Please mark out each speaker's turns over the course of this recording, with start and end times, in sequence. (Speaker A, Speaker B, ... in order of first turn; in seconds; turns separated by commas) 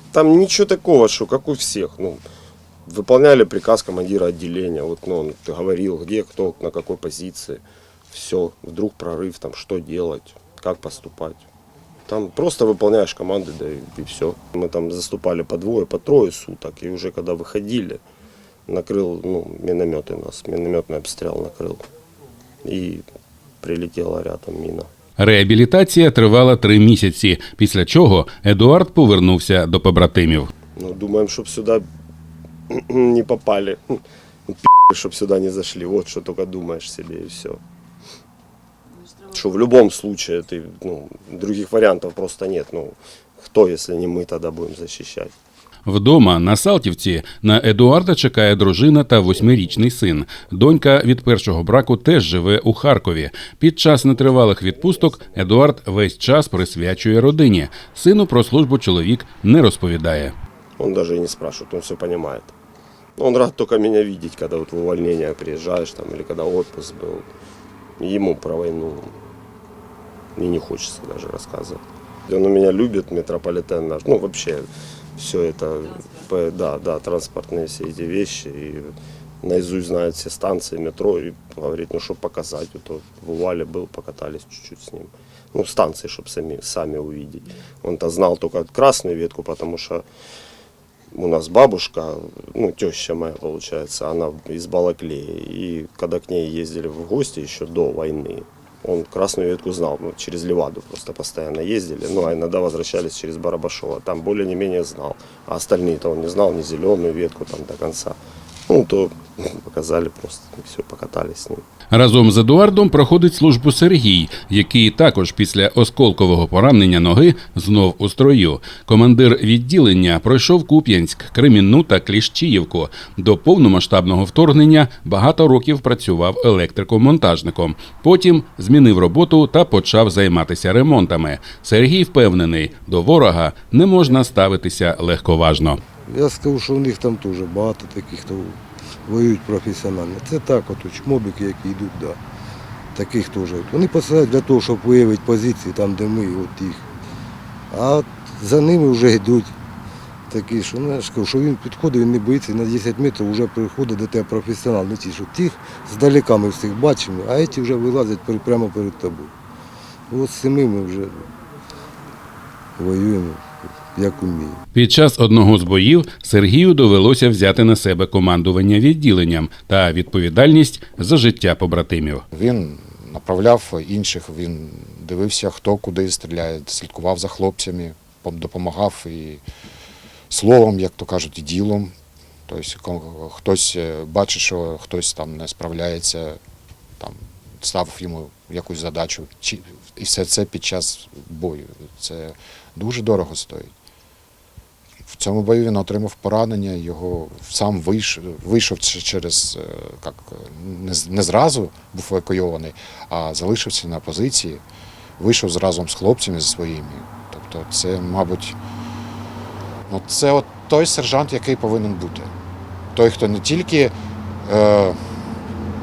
Speaker A: 0.1-2.2, Speaker A: 2.9-11.4, Speaker A: 12.1-18.0, Speaker A: 18.7-21.8, Speaker A: 22.6-23.0, Speaker A: 23.6-24.9, Speaker B: 25.2-30.5, Speaker A: 30.8-31.8, Speaker A: 32.7-37.6, Speaker A: 39.2-45.3, Speaker B: 45.8-60.3, Speaker A: 60.8-62.5, Speaker A: 63.2-67.2, Speaker A: 68.0-69.1, Speaker A: 70.3-78.9, Speaker A: 79.4-90.0, Speaker A: 91.1-111.6, Speaker B: 111.9-135.8, Speaker C: 136.1-142.2, Speaker C: 142.9-146.8, Speaker C: 147.7-149.5, Speaker C: 150.3-159.3, Speaker C: 160.1-161.3, Speaker C: 162.8-164.6, Speaker B: 164.7-172.2, Speaker D: 172.3-179.4, Speaker D: 180.3-181.9, Speaker D: 182.5-186.4, Speaker D: 187.0-193.7, Speaker D: 195.1-204.6, Speaker D: 205.2-208.6, Speaker D: 209.9-212.3, Speaker D: 212.9-213.9, Speaker D: 214.4-215.0